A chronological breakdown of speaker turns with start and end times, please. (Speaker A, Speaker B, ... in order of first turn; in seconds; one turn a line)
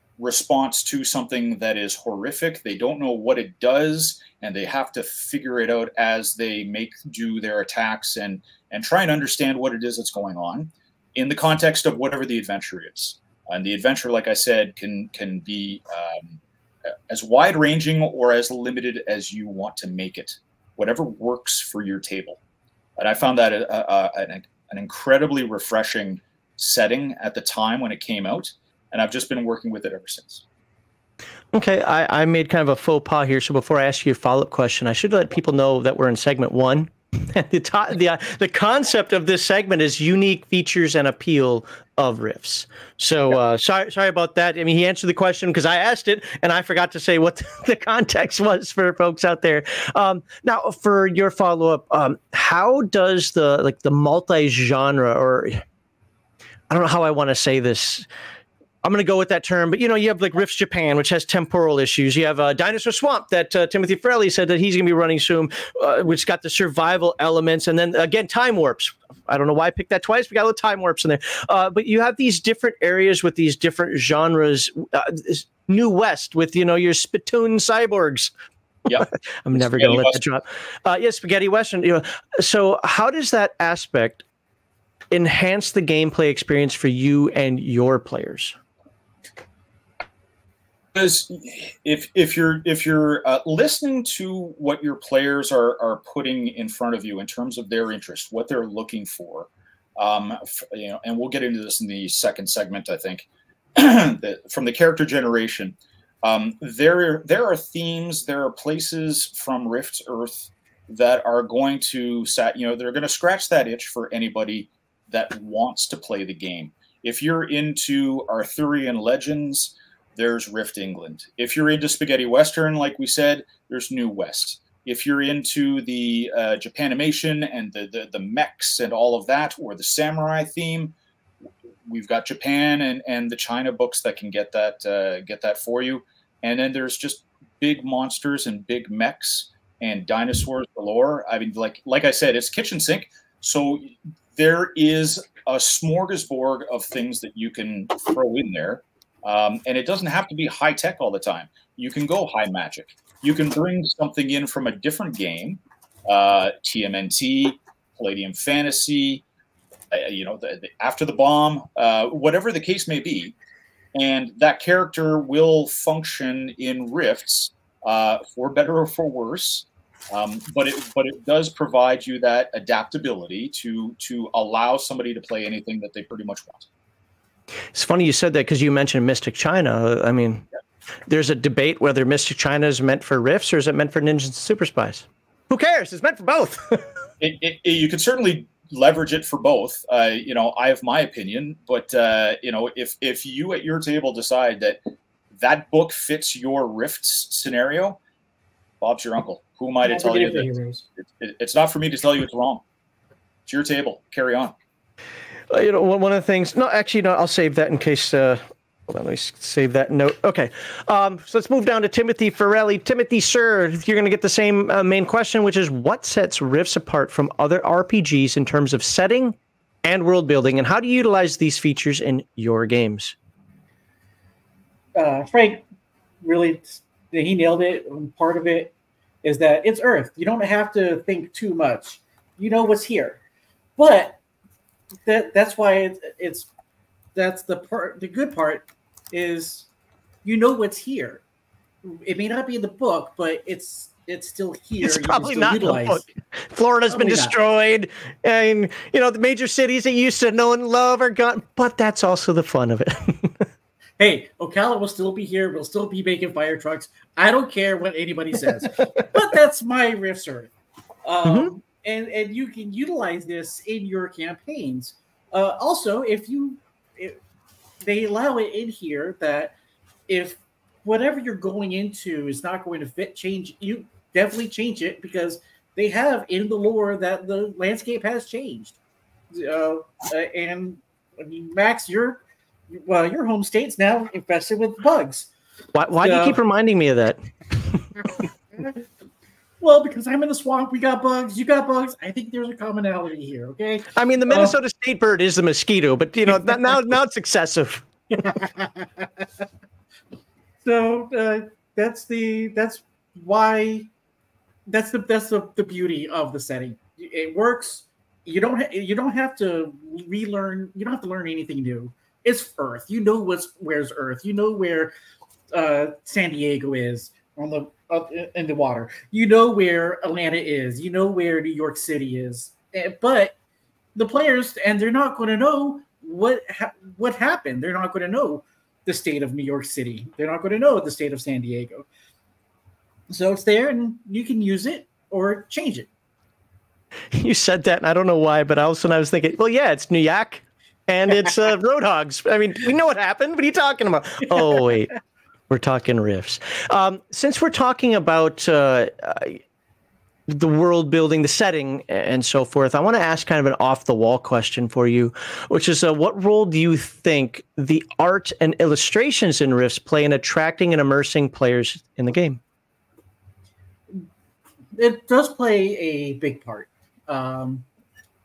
Speaker A: 0.2-16.4
Speaker A: 17.1-22.4
Speaker A: 23.0-30.4
Speaker B: 31.5-55.6
Speaker B: 56.7-58.0
Speaker B: 58.8-78.3
Speaker A: 78.8-80.2
Speaker B: 78.9-84.2
Speaker B: 85.1-88.5
Speaker A: 90.9-130.9
Speaker A: 131.8-159.2
Speaker A: 159.9-163.3
Speaker A: 163.9-176.7
Speaker B: 177.7-180.4
Speaker B: 181.1-186.8
Speaker A: 187.2-194.8
Speaker A: 195.4-198.0
Speaker A: 198.8-202.6
Speaker C: 199.8-200.8
Speaker A: 203.5-204.5
Speaker B: 205.5-223.1
Speaker C: 224.9-225.6
Speaker C: 226.2-233.2
Speaker C: 233.8-234.2
Speaker C: 235.0-236.5
Speaker C: 237.1-239.7
Speaker C: 240.2-241.2
Speaker C: 241.8-246.1
Speaker B: 244.8-253.4
Speaker C: 246.9-247.3
Speaker C: 254.0-260.5
Speaker C: 261.0-267.2
Speaker B: 261.2-261.5
Speaker C: 267.8-269.5
Speaker C: 270.1-278.8
Speaker C: 279.3-285.3
Speaker B: 285.7-287.9
Speaker C: 286.0-286.4
Speaker C: 289.6-294.6
Speaker B: 293.9-297.9
Speaker C: 298.1-299.2
Speaker C: 300.6-303.9
Speaker C: 304.7-314.9
Speaker C: 315.5-323.3
Speaker C: 323.9-331.9
Speaker C: 333.1-335.9
Speaker B: 337.1-344.9
Speaker B: 345.5-349.4
Speaker B: 350.3-362.4
Speaker C: 364.8-367.6